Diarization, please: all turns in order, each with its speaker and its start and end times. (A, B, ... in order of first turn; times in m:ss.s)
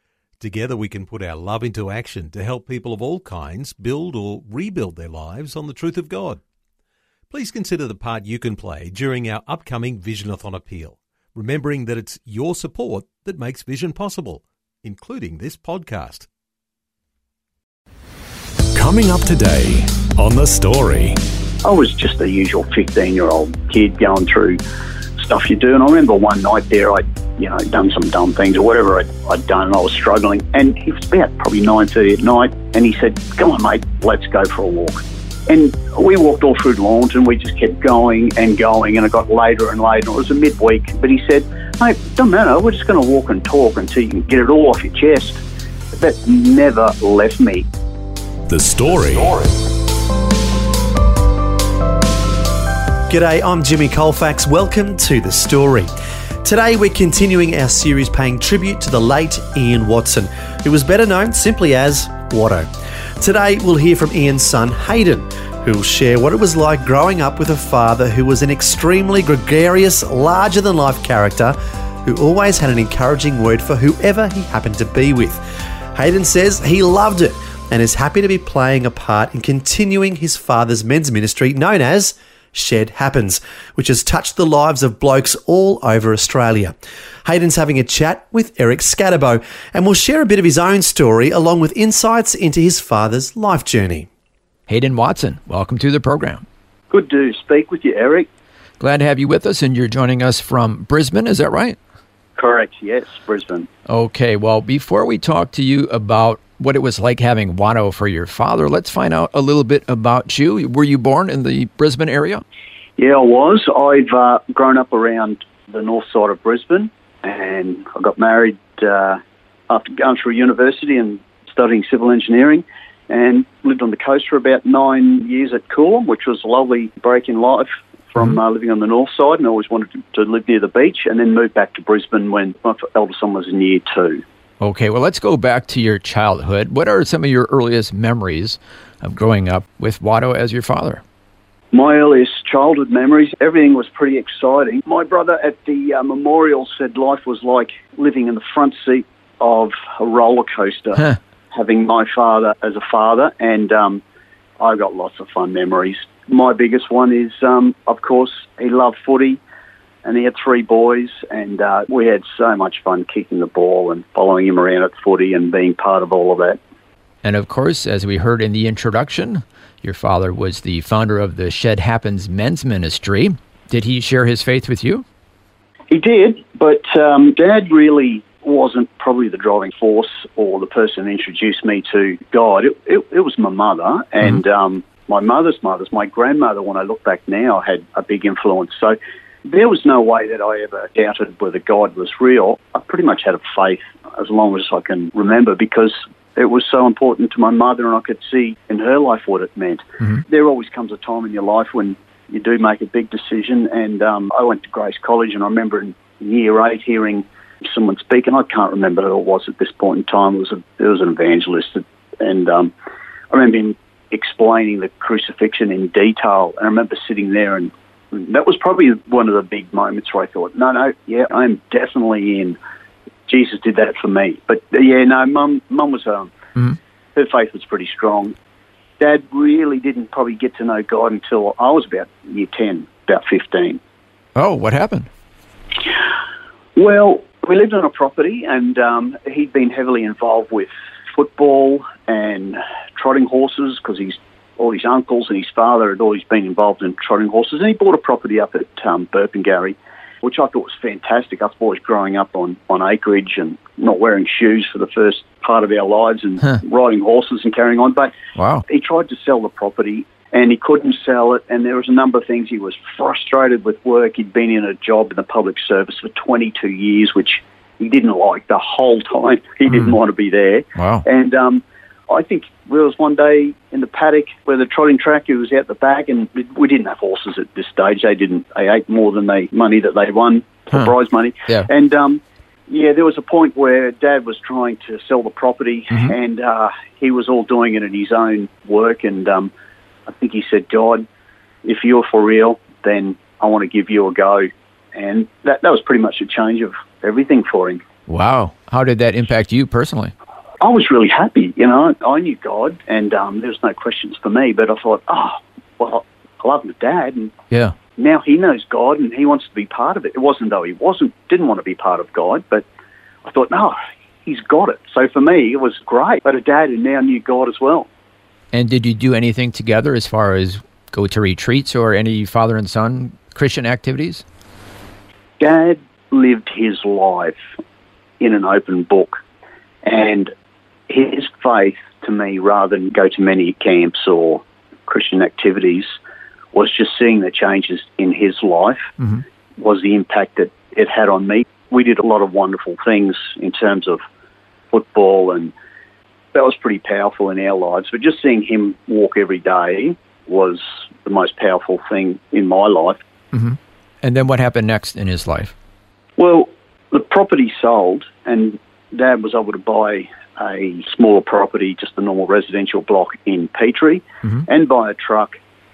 0:00.4-0:06.4 A
0:07.3-0:16.3 A
0:18.7-0:21.2 B
0:21.6-0:24.6 C
0:25.2-0:45.4 C
0:45.9-0:47.7 C
0:48.5-0:49.6 B
0:53.1-0:55.9 D
0:56.4-1:15.4 D
1:15.9-1:34.1 D
1:34.7-1:36.4 E
1:36.9-1:38.3 C
1:38.8-1:41.8 E
1:42.4-1:43.7 C
1:43.9-1:52.4 E
1:53.0-2:14.2 C
2:14.6-2:21.0 E
2:21.7-2:34.0 C
2:34.6-2:39.4 C
2:40.0-2:46.6 C
2:47.2-2:55.0 E
2:55.9-3:32.7 C
3:33.3-3:42.6 C
3:43.3-3:46.3 C
3:47.2-3:48.4 C
3:49.0-3:53.8 C
3:54.4-3:55.1 E
3:56.8-4:18.1 C
4:18.4-4:18.6 E
4:18.7-4:49.5 C
4:30.8-4:31.0 E
4:50.1-4:51.1 C
4:51.6-4:57.8 C
4:58.1-5:00.1 E
5:00.6-5:07.3 C
5:08.0-5:12.7 C
5:13.2-5:17.9 C
5:18.5-5:24.2 E
5:25.4-5:27.4 C
5:28.2-5:29.2 C
5:29.8-5:30.3 C
5:30.9-5:36.0 C
5:36.5-5:38.9 C
5:39.6-5:44.0 C
5:44.7-5:45.5 C
5:46.3-5:53.0 C
5:53.3-5:55.5 E
5:56.2-6:05.4 C